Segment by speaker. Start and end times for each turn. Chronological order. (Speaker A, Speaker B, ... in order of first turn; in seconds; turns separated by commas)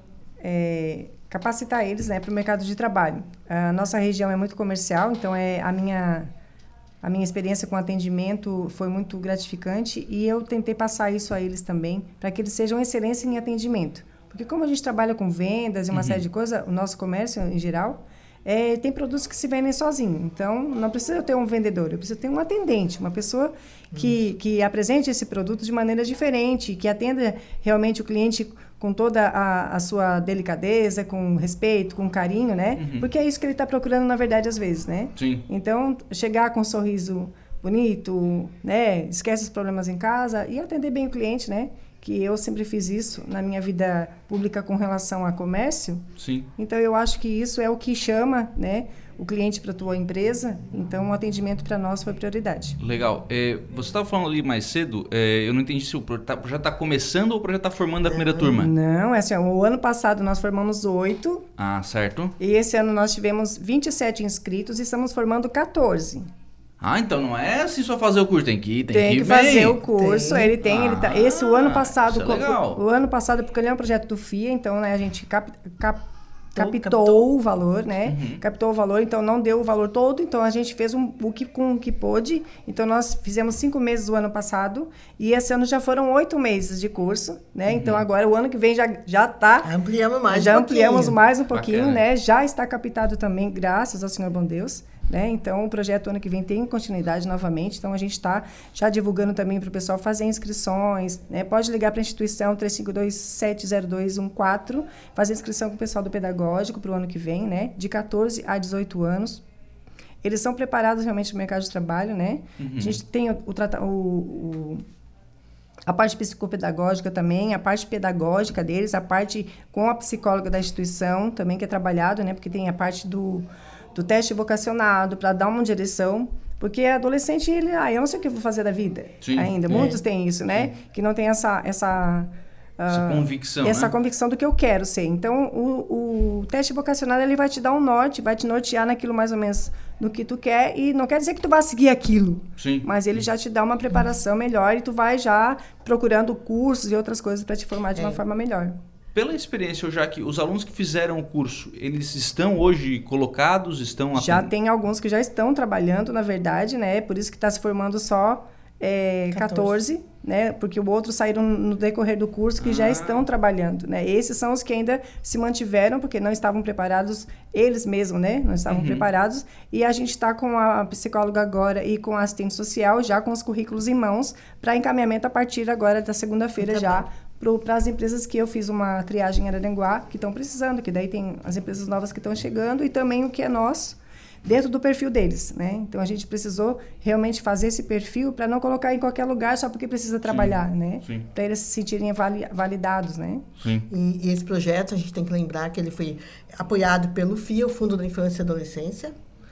Speaker A: 0.4-6.3, Speaker A: 7.0-52.8, Speaker B: 15.9-16.2, Speaker B: 32.8-33.1, Speaker B: 35.1-35.4, Speaker B: 46.2-46.5, Speaker B: 52.8-58.7, Speaker C: 58.1-58.4, Speaker A: 58.5-61.5, Speaker B: 61.6-62.3, Speaker A: 62.4-66.3, Speaker B: 66.8-69.8, Speaker A: 68.9-89.7, Speaker C: 69.9-70.5, Speaker B: 70.6-72.8, Speaker C: 76.5-77.2, Speaker B: 78.0-78.4, Speaker B: 87.7-88.0, Speaker C: 89.6-91.2, Speaker A: 90.3-109.4, Speaker B: 91.5-92.0, Speaker A: 110.2-114.8, Speaker B: 112.6-113.0, Speaker A: 115.8-148.8, Speaker B: 129.2-130.0, Speaker B: 132.9-133.9, Speaker B: 142.6-143.2, Speaker C: 147.9-148.2, Speaker B: 149.1-154.5, Speaker A: 154.1-193.5, Speaker C: 159.3-159.8, Speaker B: 162.6-163.2, Speaker B: 168.7-169.0, Speaker C: 176.6-177.0, Speaker B: 190.2-191.2, Speaker B: 193.6-193.9, Speaker C: 193.9-199.1